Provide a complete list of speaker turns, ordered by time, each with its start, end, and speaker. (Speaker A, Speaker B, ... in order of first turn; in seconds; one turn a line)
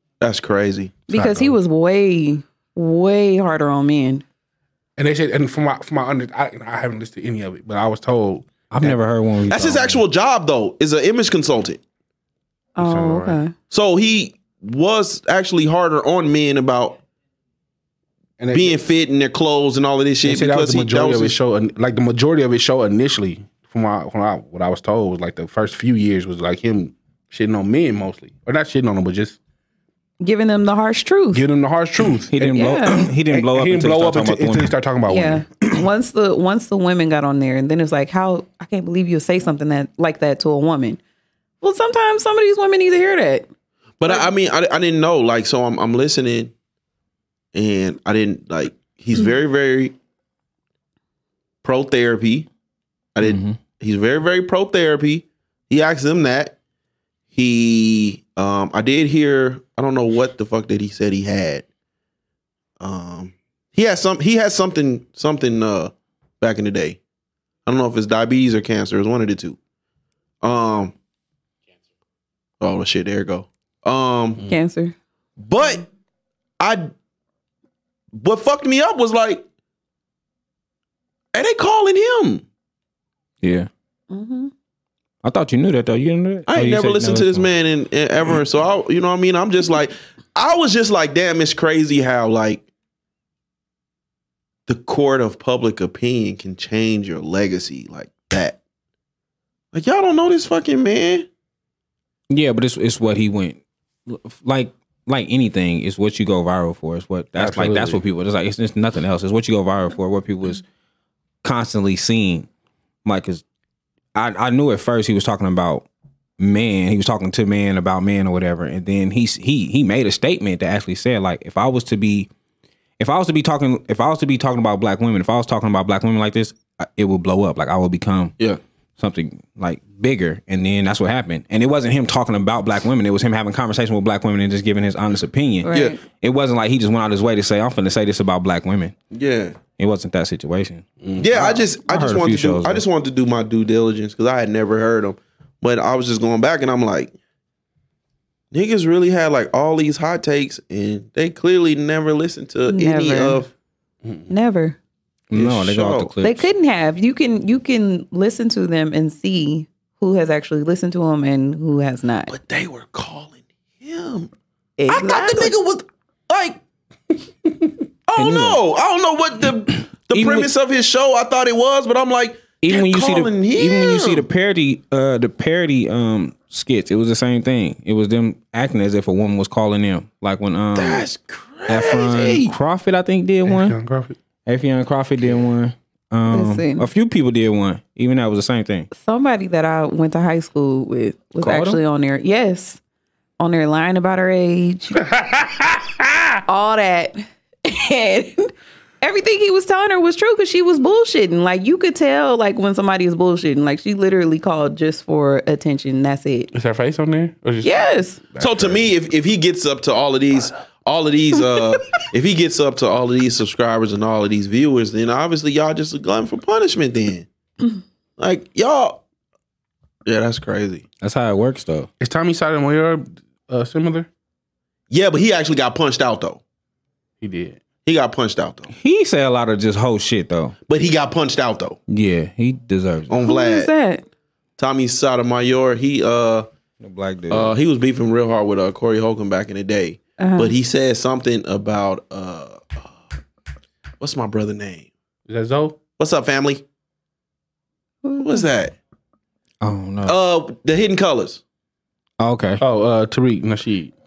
Speaker A: 0.2-1.0
Speaker B: 1.1-4.2
Speaker C: 1.1-1.6
Speaker C: 5.0-8.9
Speaker D: 8.7-10.0
Speaker A: 9.5-11.8
Speaker B: 12.8-13.5
Speaker C: 12.8-13.4
Speaker A: 13.7-17.0
Speaker C: 18.4-18.8
Speaker A: 18.5-21.4
Speaker C: 20.2-29.4
Speaker B: 30.2-31.4
Speaker C: 31.3-35.5
Speaker D: 32.3-34.7
Speaker B: 32.4-33.0
Speaker B: 35.1-41.0
Speaker B: 41.6-43.5
Speaker A: 44.0-46.5
Speaker A: 47.5-50.0
Speaker A: 51.6-52.5
Speaker A: 53.1-56.6
Speaker D: 53.2-53.6
Speaker A: 57.3-61.6
Speaker A: 62.8-67.0
Speaker A: 67.7-69.6
Speaker A: 70.4-70.9
Speaker A: 72.6-74.4
Speaker B: 74.5-74.9
Speaker A: 75.4-75.8
Speaker A: 76.6-76.9
Speaker A: 78.1-79.4
Speaker A: 81.3-82.4
Speaker D: 83.4-83.7
Speaker B: 84.1-84.5
Speaker D: 85.2-87.5
Speaker A: 86.5-92.6
Speaker A: 94.7-98.6
Speaker A: 99.7-101.3
Speaker D: 102.3-110.6
Speaker C: 107.4-108.0
Speaker D: 111.4-112.5
Speaker D: 113.0-113.4
Speaker D: 114.1-115.9
Speaker D: 116.4-122.3
Speaker D: 123.0-128.3
Speaker D: 129.0-138.9
Speaker B: 135.6-136.0
Speaker A: 135.7-136.0
Speaker A: 139.1-139.6
Speaker D: 139.7-142.8
Speaker C: 141.0-141.3
Speaker A: 141.2-147.1
Speaker A: 148.5-153.5
Speaker B: 152.7-153.4
Speaker C: 154.0-154.3
Speaker B: 154.3-154.8
Speaker D: 155.3-156.5
Speaker A: 155.3-156.1
Speaker B: 156.2-162.3
Speaker A: 162.3-164.3
Speaker B: 164.8-165.5
Speaker A: 164.9-166.6
Speaker A: 168.1-174.3
Speaker D: 168.2-168.6
Speaker D: 170.1-170.5
Speaker D: 172.6-181.1
Speaker A: 180.7-182.5
Speaker D: 181.7-183.8
Speaker C: 183.4-184.2
Speaker D: 184.4-188.9
Speaker B: 186.3-186.8
Speaker B: 188.9-192.8
Speaker D: 191.4-191.8
Speaker B: 193.4-195.0
Speaker C: 195.0-196.1
Speaker B: 196.5-198.5
Speaker B: 199.0-206.5
Speaker C: 206.5-208.9
Speaker B: 207.6-208.2
Speaker A: 208.4-217.3
Speaker A: 218.2-219.0
Speaker A: 220.0-220.8
Speaker D: 221.0-221.9
Speaker C: 222.0-224.1
Speaker A: 224.9-226.4
Speaker C: 227.2-227.6
Speaker A: 227.8-228.7
Speaker D: 228.7-230.5
Speaker A: 230.7-231.8
Speaker D: 231.9-233.2
Speaker A: 233.1-233.7
Speaker B: 233.2-234.0
Speaker A: 234.6-236.5
Speaker D: 236.8-237.5
Speaker A: 237.3-242.9
Speaker B: 240.2-240.6
Speaker A: 244.0-244.9
Speaker C: 245.3-245.8
Speaker A: 246.0-246.6
Speaker B: 248.0-248.4
Speaker A: 248.2-248.8
Speaker D: 249.6-250.1
Speaker A: 250.0-251.4
Speaker D: 252.2-252.6
Speaker C: 252.6-253.9